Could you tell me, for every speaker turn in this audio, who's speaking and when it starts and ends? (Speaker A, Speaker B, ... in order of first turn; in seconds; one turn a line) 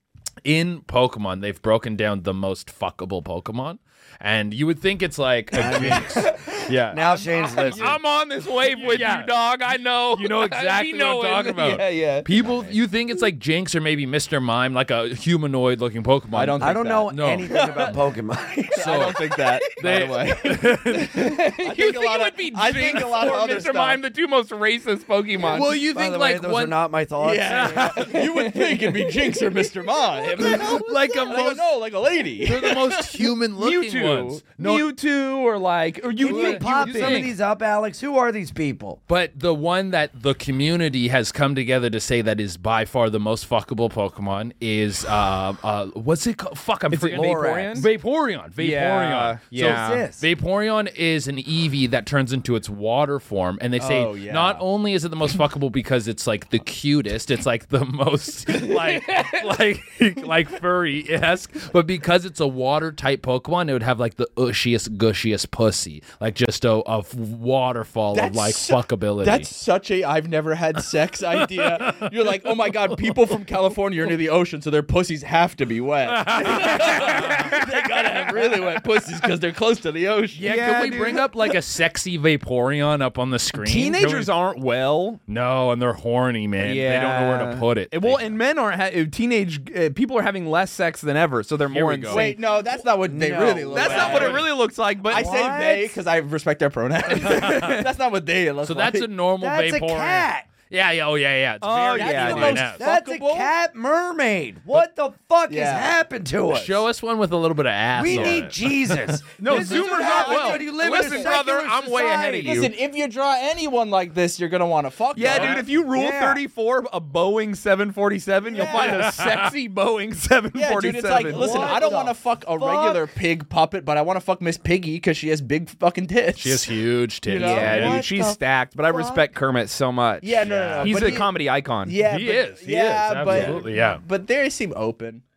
Speaker A: 0.4-7.0
Speaker B: 5.5-8.0
Speaker C: 6.2-12.3
Speaker A: 7.6-8.0
Speaker A: 8.6-9.4
Speaker A: 10.1-18.0
Speaker D: 16.3-17.1
Speaker B: 16.6-19.0
Speaker D: 18.7-20.8
Speaker A: 18.8-21.3
Speaker C: 20.9-25.8
Speaker D: 21.6-24.0
Speaker A: 25.5-26.8
Speaker B: 25.7-27.9
Speaker D: 27.2-33.2
Speaker A: 27.5-28.0
Speaker C: 27.9-29.1
Speaker C: 30.4-31.6
Speaker A: 31.1-31.4
Speaker A: 32.4-34.9
Speaker C: 33.6-37.3
Speaker B: 36.2-39.0
Speaker A: 36.2-37.3
Speaker A: 39.1-69.5
Speaker C: 46.9-47.9
Speaker B: 47.1-47.9
Speaker C: 48.6-50.0
Speaker B: 49.5-50.3
Speaker D: 53.8-54.6
Speaker D: 68.1-80.5
Speaker A: 71.4-73.0
Speaker A: 76.2-77.5
Speaker C: 80.4-81.3
Speaker A: 80.4-84.3
Speaker C: 83.5-85.2
Speaker A: 85.3-88.4
Speaker C: 86.6-92.3
Speaker A: 91.7-92.4
Speaker D: 92.1-99.1
Speaker B: 92.7-94.5
Speaker C: 93.7-95.4
Speaker B: 95.1-96.0
Speaker A: 97.2-97.8
Speaker A: 98.6-102.8
Speaker B: 99.4-100.5
Speaker C: 101.6-102.7
Speaker D: 101.9-103.5
Speaker B: 102.6-106.8
Speaker D: 105.5-105.9
Speaker A: 106.5-109.2
Speaker B: 108.0-112.7
Speaker C: 109.4-112.7
Speaker D: 110.1-111.3
Speaker D: 112.5-115.7
Speaker C: 115.1-122.0
Speaker A: 115.2-115.6
Speaker B: 115.7-116.4
Speaker D: 118.6-118.9
Speaker A: 118.6-119.5
Speaker D: 120.5-127.8
Speaker B: 121.2-123.1
Speaker A: 126.4-128.0
Speaker C: 127.4-132.0
Speaker B: 127.4-129.2
Speaker D: 130.2-135.2
Speaker A: 130.4-131.2
Speaker A: 132.0-134.0
Speaker B: 133.3-133.6